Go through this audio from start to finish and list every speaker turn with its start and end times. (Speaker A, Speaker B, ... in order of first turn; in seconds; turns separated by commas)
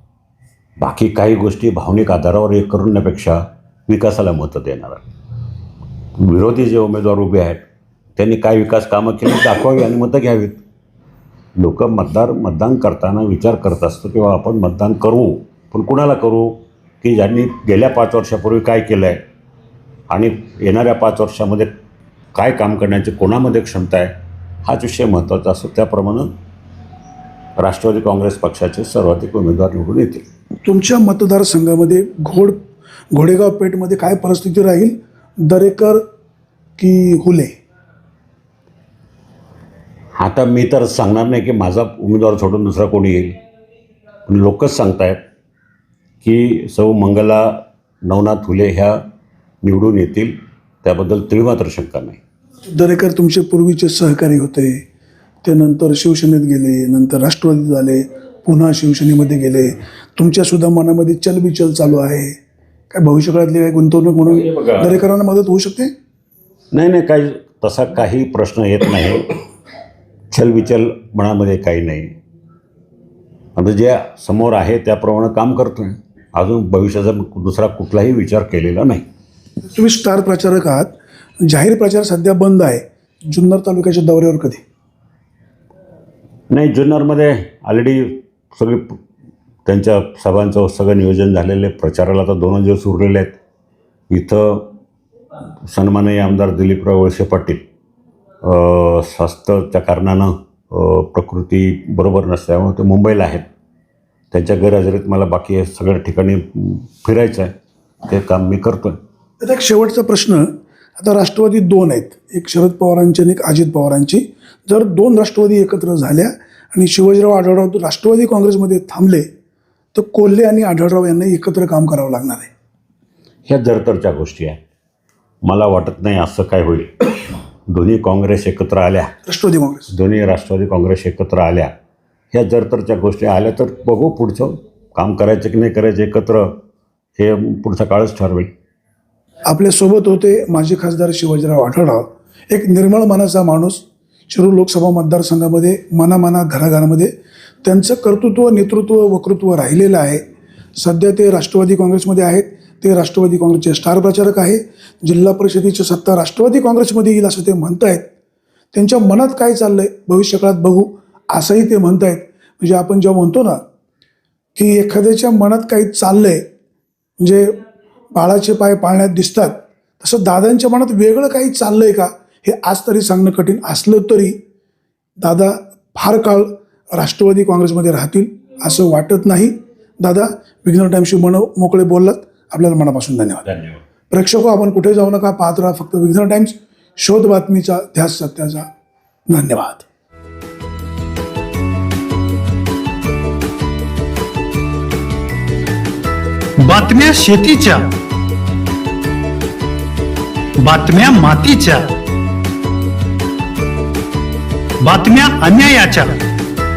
Speaker A: 0.8-5.0, Speaker A: 6.2-7.6, Speaker A: 8.2-10.6, Speaker A: 11.6-19.2, Speaker A: 20.1-21.6, Speaker A: 22.3-24.1, Speaker A: 24.6-26.3, Speaker A: 27.6-30.2, Speaker B: 30.6-32.6, Speaker B: 33.1-36.0, Speaker B: 36.8-37.5, Speaker A: 40.2-43.4, Speaker A: 44.3-45.2, Speaker A: 46.2-47.4, Speaker A: 48.1-48.9, Speaker A: 49.6-50.3, Speaker A: 50.9-52.2, Speaker B: 52.7-54.8, Speaker B: 55.4-62.4, Speaker B: 62.9-65.9, Speaker A: 64.6-64.9, Speaker A: 66.7-69.2, Speaker A: 70.3-72.1, Speaker A: 73.6-79.0, Speaker B: 79.7-84.6, Speaker A: 86.5-88.8, Speaker A: 89.7-93.3, Speaker A: 94.1-94.6, Speaker A: 95.7-97.6, Speaker A: 98.4-103.4, Speaker A: 104.3-106.4, Speaker A: 107.0-107.5, Speaker A: 108.1-108.9, Speaker B: 109.4-110.5, Speaker B: 111.0-119.3, Speaker B: 119.9-122.5, Speaker A: 123.5-124.6, Speaker A: 125.4-126.9, Speaker A: 127.7-129.1, Speaker B: 129.3-129.9, Speaker A: 129.9-131.7, Speaker A: 132.3-136.4, Speaker A: 137.2-138.5, Speaker B: 139.5-147.1, Speaker B: 147.6-150.2, Speaker B: 150.8-158.1, Speaker B: 158.7-163.6, Speaker B: 164.6-166.4, Speaker B: 167.2-167.6, Speaker B: 168.1-174.4, Speaker B: 175.2-183.4, Speaker A: 183.5-183.8, Speaker B: 184.1-188.7, Speaker B: 189.3-189.9, Speaker C: 196.6-197.9, Speaker C: 200.6-201.9, Speaker C: 204.8-206.2